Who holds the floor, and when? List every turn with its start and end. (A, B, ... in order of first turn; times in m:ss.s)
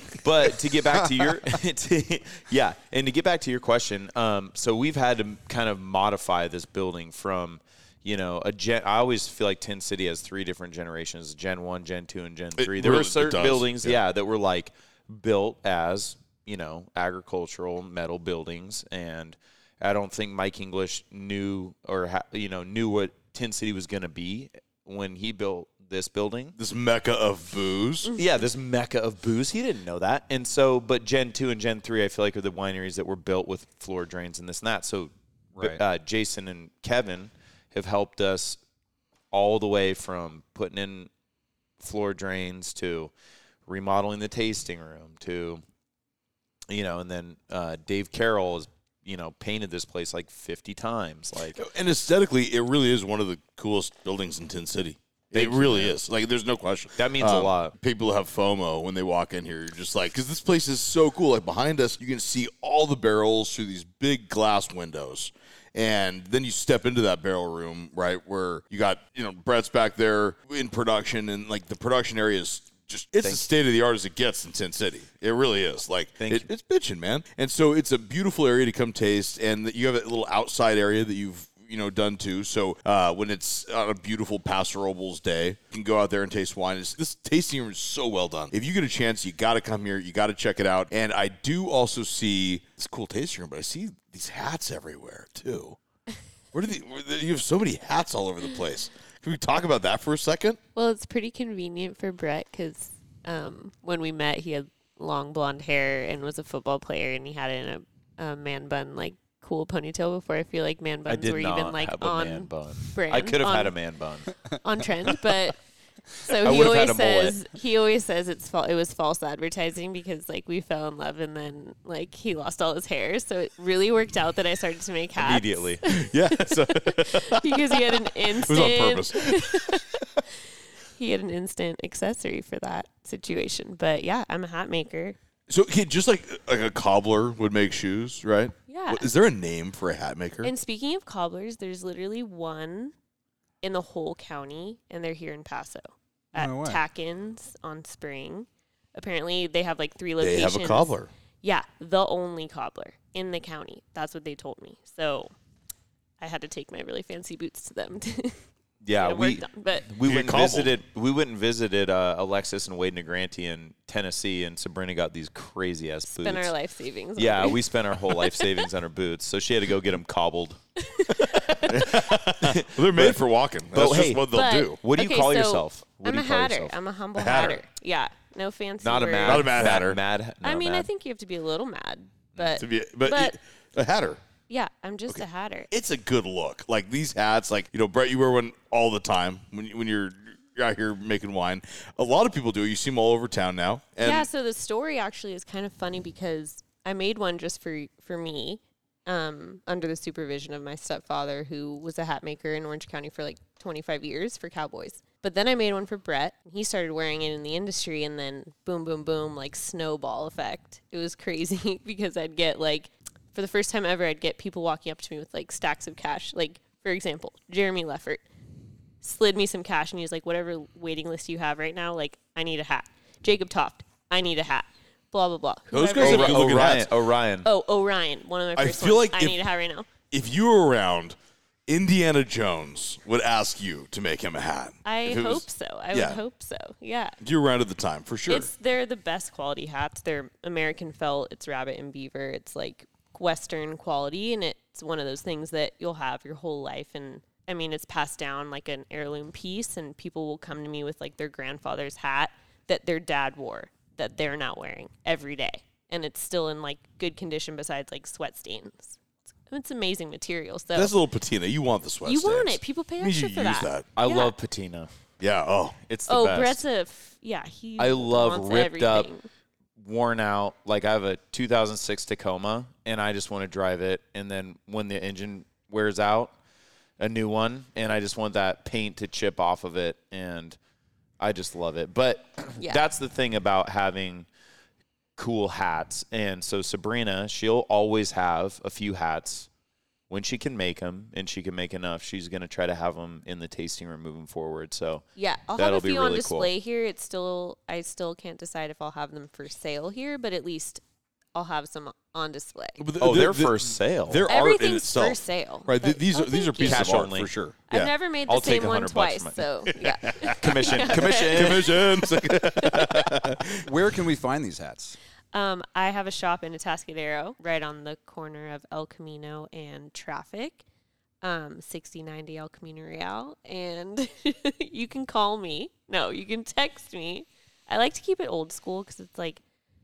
0:00.2-0:26.6 A
0:12.6-0:14.0 B
0:26.6-0:28.1 B
0:28.1-0:38.6 A
0:35.6-0:35.8 C
0:39.3-0:41.1 A
0:41.8-0:43.1 A
0:43.6-0:45.6 A
0:46.7-0:51.6 A
0:51.5-1:35.8 B
0:55.3-0:56.0 A
0:57.0-0:57.7 A
1:13.2-1:13.5 A
1:16.2-1:16.5 A
1:36.5-1:40.6 B
1:40.7-1:53.7 D
1:51.1-1:54.3 A
1:54.5-1:55.6 D
1:56.2-2:10.0 D
1:56.4-1:57.4 A
2:05.2-2:05.8 A
2:05.9-2:09.8 B
2:10.9-2:15.2 D
2:15.5-2:20.5 B
2:18.7-2:19.1 D
2:20.4-2:22.9 D
2:23.6-2:30.9 D
2:26.3-2:26.8 C
2:30.2-2:31.1 B
2:31.4-2:35.3 D
2:36.2-2:38.4 D
2:38.8-2:46.5 A
2:39.0-2:39.9 D
2:40.0-2:40.7 B
2:46.1-2:48.4 D
2:47.2-2:50.6 A
2:50.8-2:51.9 D
2:51.3-2:54.8 B
2:51.8-2:53.2 A
2:53.7-2:56.8 A
2:54.3-2:59.7 D
2:57.2-2:57.6 B
2:58.8-3:00.9 A
2:59.2-3:00.0 B
3:00.4-3:03.4 D
3:02.6-3:04.2 B
3:04.5-3:05.7 D
3:05.1-3:14.3 B
3:14.0-3:38.2 D
3:39.0-3:46.8 D
3:45.7-3:46.9 B
3:46.0-3:47.5 A
3:47.4-3:49.9 D
3:48.6-3:49.4 B
3:50.1-3:56.2 B
3:54.8-3:57.2 D
3:57.2-3:58.5 B
3:58.3-4:20.9 D
4:20.7-4:23.8 B
4:22.0-4:24.3 D
4:24.0-4:24.9 A
4:25.2-4:25.8 B
4:25.9-4:26.6 A
4:26.1-4:29.3 D
4:27.8-4:29.1 A
4:29.8-4:36.3 A
4:37.0-4:40.6 A
4:41.2-4:44.3 A
4:45.2-4:49.5 A
4:50.1-4:55.0 A
4:55.2-5:00.8 D
4:55.6-4:56.5 A
5:01.3-5:02.8 D
5:02.8-5:07.9 B
5:03.0-5:04.2 A
5:04.3-5:07.1 D
5:06.6-5:07.3 A
5:07.7-5:13.1 D
5:08.3-5:09.4 A
5:09.8-5:13.7 B
5:10.4-5:11.6 A
5:13.6-5:15.0 C
5:15.3-5:20.6 D
5:21.2-5:29.4 D